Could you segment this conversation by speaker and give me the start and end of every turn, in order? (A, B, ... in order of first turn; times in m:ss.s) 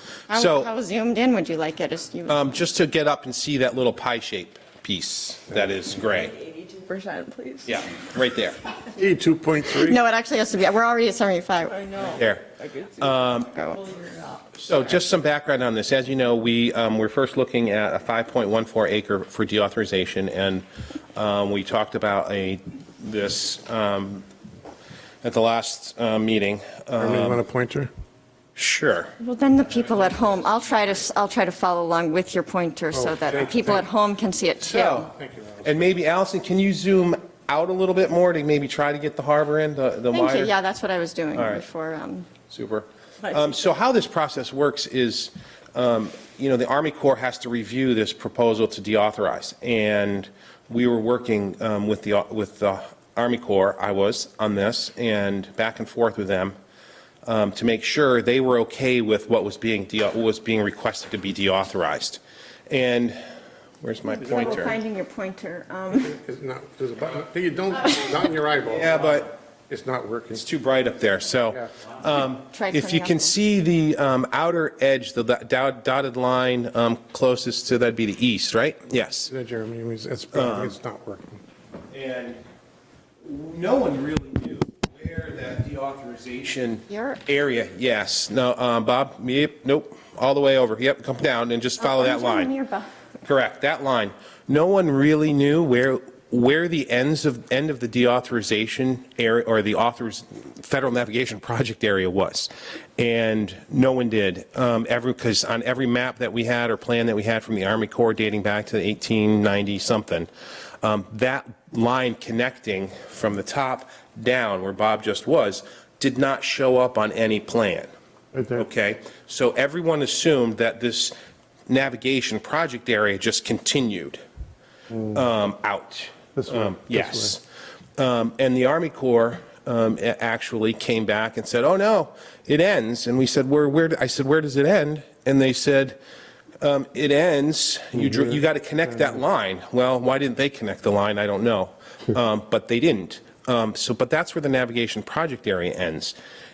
0:00.3-0:02.6 A
0:00.3-0:00.7 B
0:02.3-0:06.4 B
0:06.1-0:07.8 C
0:07.7-0:08.6 B
0:08.9-0:10.0 D
0:09.8-0:11.8 A
0:11.7-0:14.7 C
0:12.1-0:12.4 B
0:13.0-0:13.5 B
0:13.5-0:13.8 A
0:14.6-0:24.3 B
0:25.2-0:27.4 B
0:27.0-0:27.9 D
0:28.6-0:29.1 B
0:29.2-0:35.0 A
0:32.9-0:33.9 D
0:34.6-0:35.8 D
0:34.7-0:35.1 B
0:35.6-0:40.5 B
0:40.1-0:42.3 A
0:41.4-0:41.6 B
0:42.5-0:56.6 B
0:57.2-1:03.2 B
1:03.8-1:04.8 B
1:04.2-1:06.2 A
1:06.0-1:10.4 D
1:08.7-1:09.3 B
1:10.4-1:19.3 B
1:12.5-1:13.4 A
1:19.3-1:21.4 D
1:20.3-1:20.8 B
1:21.9-1:22.4 B
1:23.2-1:32.5 B
1:26.9-1:27.2 A
1:31.8-1:32.9 A
1:33.3-1:50.3 B
1:50.8-1:57.9 B
1:58.3-1:58.7 D
1:58.6-2:01.1 B
2:01.7-2:04.2 B
2:05.1-2:07.4 B
2:06.4-2:07.4 D
2:08.0-2:16.0 B
2:16.6-2:26.2 B